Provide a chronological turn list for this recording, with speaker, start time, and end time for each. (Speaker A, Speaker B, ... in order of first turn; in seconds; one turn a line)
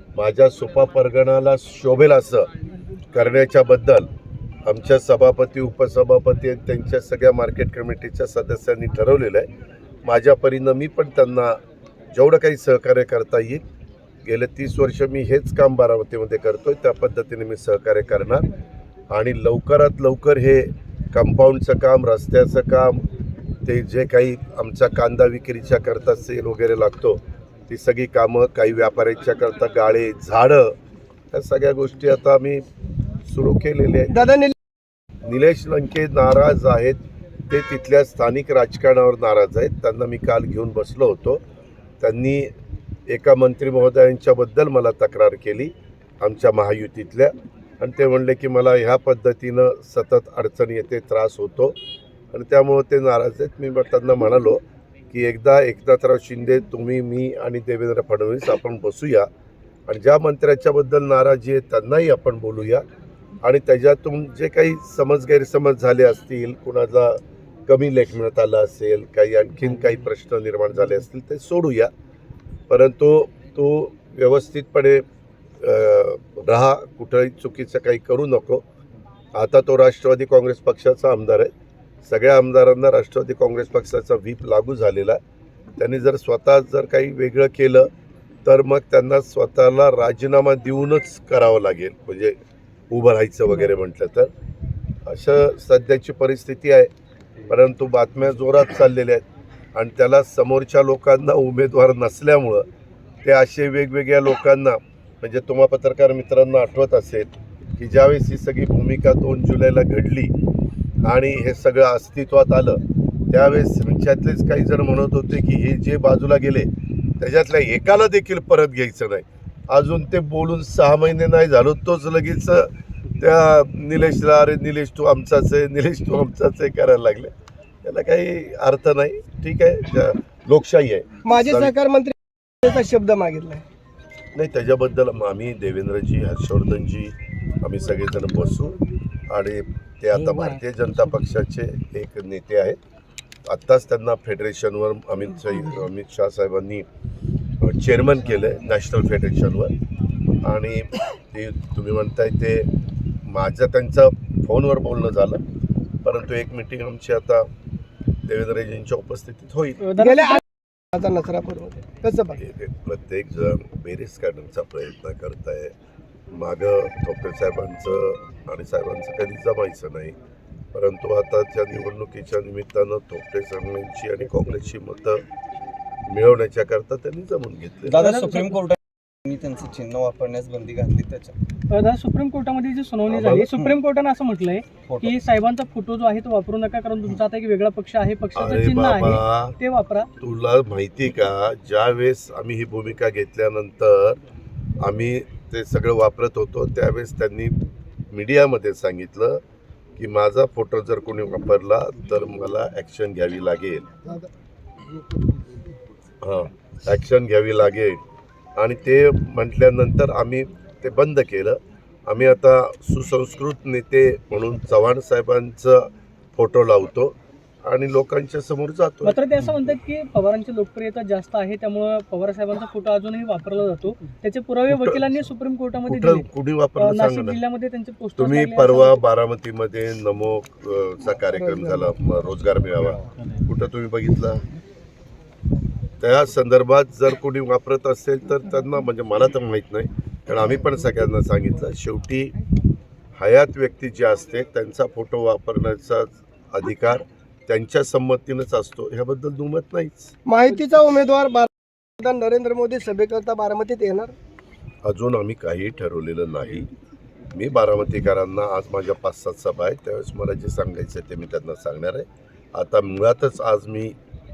Speaker A: 0.1-2.5
Speaker A: 3.1-4.1
Speaker A: 4.6-9.5
Speaker A: 10.0-11.6
Speaker A: 12.1-13.6
Speaker A: 14.2-18.4
Speaker A: 19.1-23.0
Speaker A: 23.6-30.8
Speaker A: 31.3-32.6
Speaker A: 33.2-34.3
Speaker B: 34.1-34.5
Speaker A: 35.2-41.4
Speaker A: 42.0-42.5
Speaker A: 43.1-51.8
Speaker A: 52.3-59.3
Speaker A: 59.9-62.8
Speaker A: 63.4-71.9
Speaker A: 72.7-75.0
Speaker A: 75.6-78.6
Speaker A: 79.3-81.5
Speaker A: 82.0-85.2
Speaker A: 85.8-87.9
Speaker A: 88.4-92.4
Speaker A: 92.9-94.3
Speaker A: 95.0-96.9
Speaker A: 97.5-102.7
Speaker A: 103.2-110.3
Speaker A: 111.0-116.7
Speaker A: 117.2-127.3
Speaker A: 127.8-131.7
Speaker B: 131.2-133.6
Speaker A: 134.3-138.8
Speaker A: 139.3-142.8
Speaker A: 143.4-146.9
Speaker A: 147.6-149.7
Speaker A: 150.4-152.7
Speaker A: 153.2-155.4
Speaker A: 156.0-157.5
Speaker A: 158.2-159.8
Speaker C: 159.8-160.4
Speaker B: 160.0-162.4
Speaker A: 162.3-165.7
Speaker A: 166.3-170.2
Speaker A: 170.7-175.2
Speaker A: 176.1-178.0
Speaker D: 177.8-181.4
Speaker C: 178.0-178.6
Speaker C: 181.7-190.1
Speaker A: 183.1-183.5
Speaker D: 184.9-185.2
Speaker A: 188.3-189.6
Speaker A: 190.2-194.2
Speaker A: 194.8-197.6
Speaker A: 198.1-199.4
Speaker A: 200.0-203.9
Speaker A: 206.2-208.0
Speaker A: 208.6-219.2
Speaker C: 219.0-226.3
Speaker A: 224.7-225.1
Speaker A: 225.8-227.4
Speaker C: 226.8-229.0
Speaker A: 228.2-234.4
Speaker B: 231.2-231.9
Speaker A: 236.0-242.3
Speaker A: 243.2-250.1
Speaker B: 250.2-254.1
Speaker A: 254.8-256.7
Speaker A: 257.3-263.9